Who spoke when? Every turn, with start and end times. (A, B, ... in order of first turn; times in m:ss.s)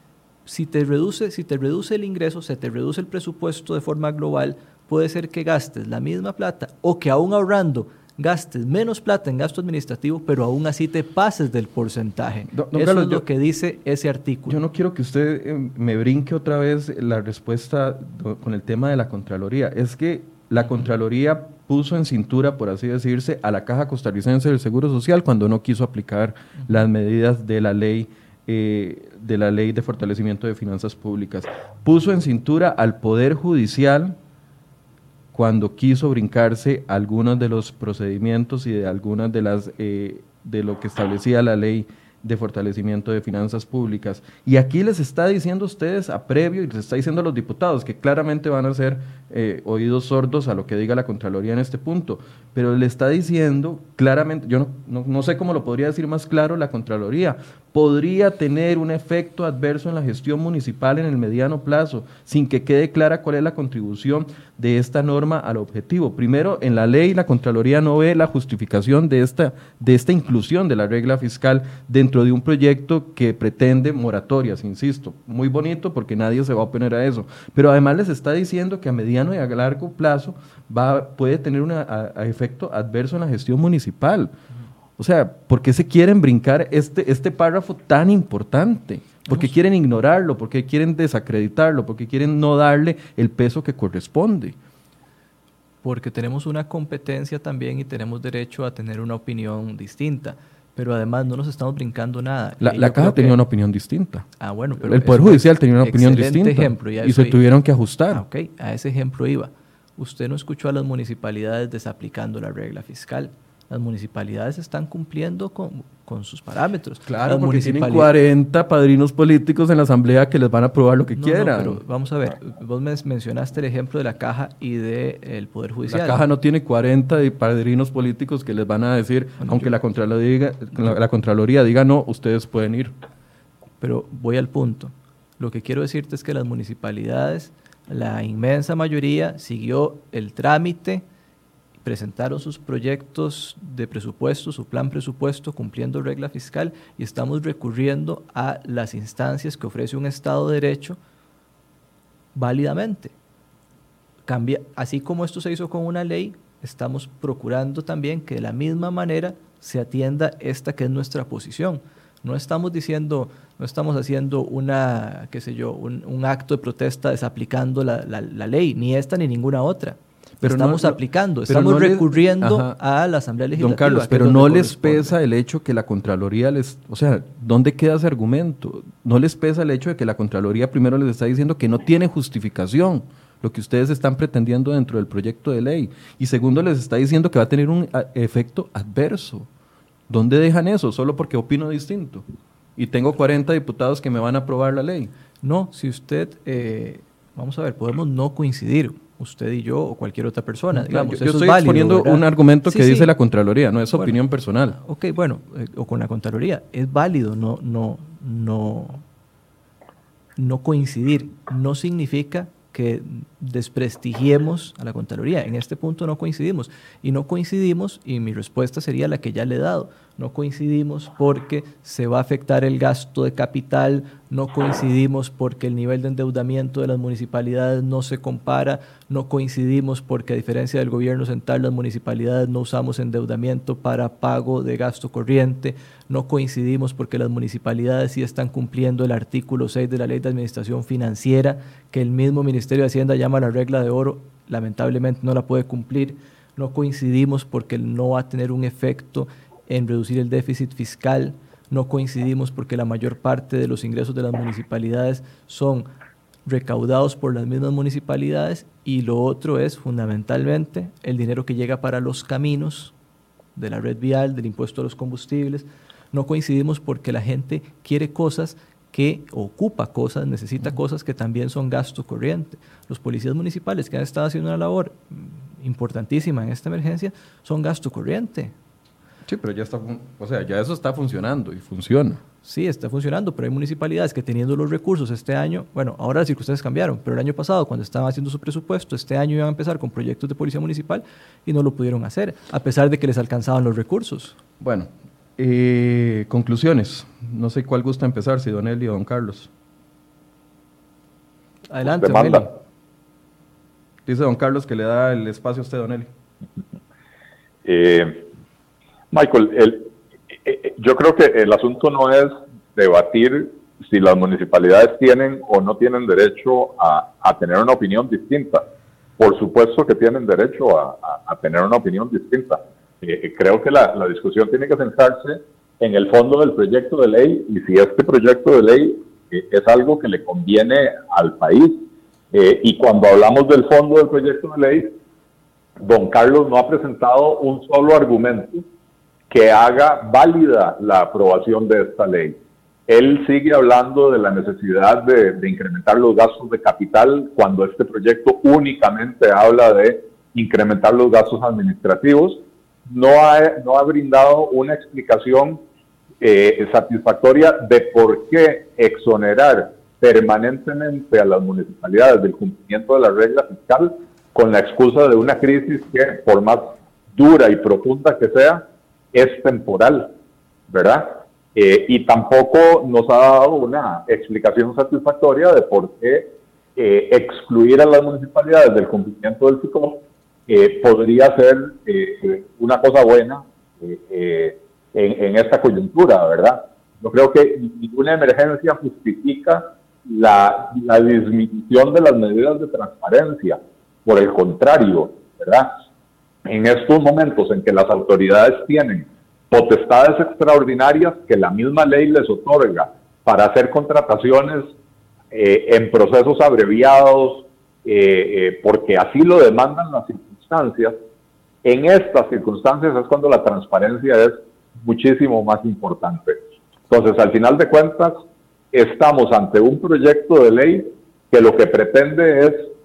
0:00.4-0:14.6 A
0:12.5-0:13.2 B
0:14.5-0:34.2 B
0:35.3-1:24.3 B
1:25.0-1:34.6 B
1:35.8-1:43.4 A
1:42.6-1:44.3 B
1:44.4-1:47.4 A
1:44.8-1:48.2 B
1:48.1-1:58.1 A
1:57.1-2:01.8 B
2:01.1-2:06.2 A
2:05.9-2:12.9 B
2:09.4-2:09.7 A
2:13.8-2:21.0 A
2:21.8-2:31.0 A
2:32.3-2:33.1 A
2:34.3-2:55.1 A
2:50.4-2:52.7 B
2:53.6-3:09.5 B
3:10.1-3:12.2 B
3:12.8-3:15.1 B
3:15.4-3:23.1 A
3:20.7-3:24.8 B
3:24.7-3:29.0 A
3:30.4-4:15.8 A
4:16.5-4:22.9 A
4:23.6-4:38.5 A
4:39.3-4:42.2 B
4:42.4-4:54.4 A
4:54.6-4:59.5 B
5:01.7-5:02.5 A
5:01.8-5:02.5 C
5:04.0-5:06.1 B
5:07.6-5:08.3 C
5:09.1-5:18.6 C
5:19.2-5:31.8 C
5:32.3-5:34.9 C
5:35.8-5:38.6 C
5:39.3-5:55.6 C
5:56.2-6:10.1 C
6:10.7-6:35.7 C
6:36.4-6:44.7 C
6:45.3-6:50.9 C
6:51.6-6:58.2 C
6:58.7-7:02.7 C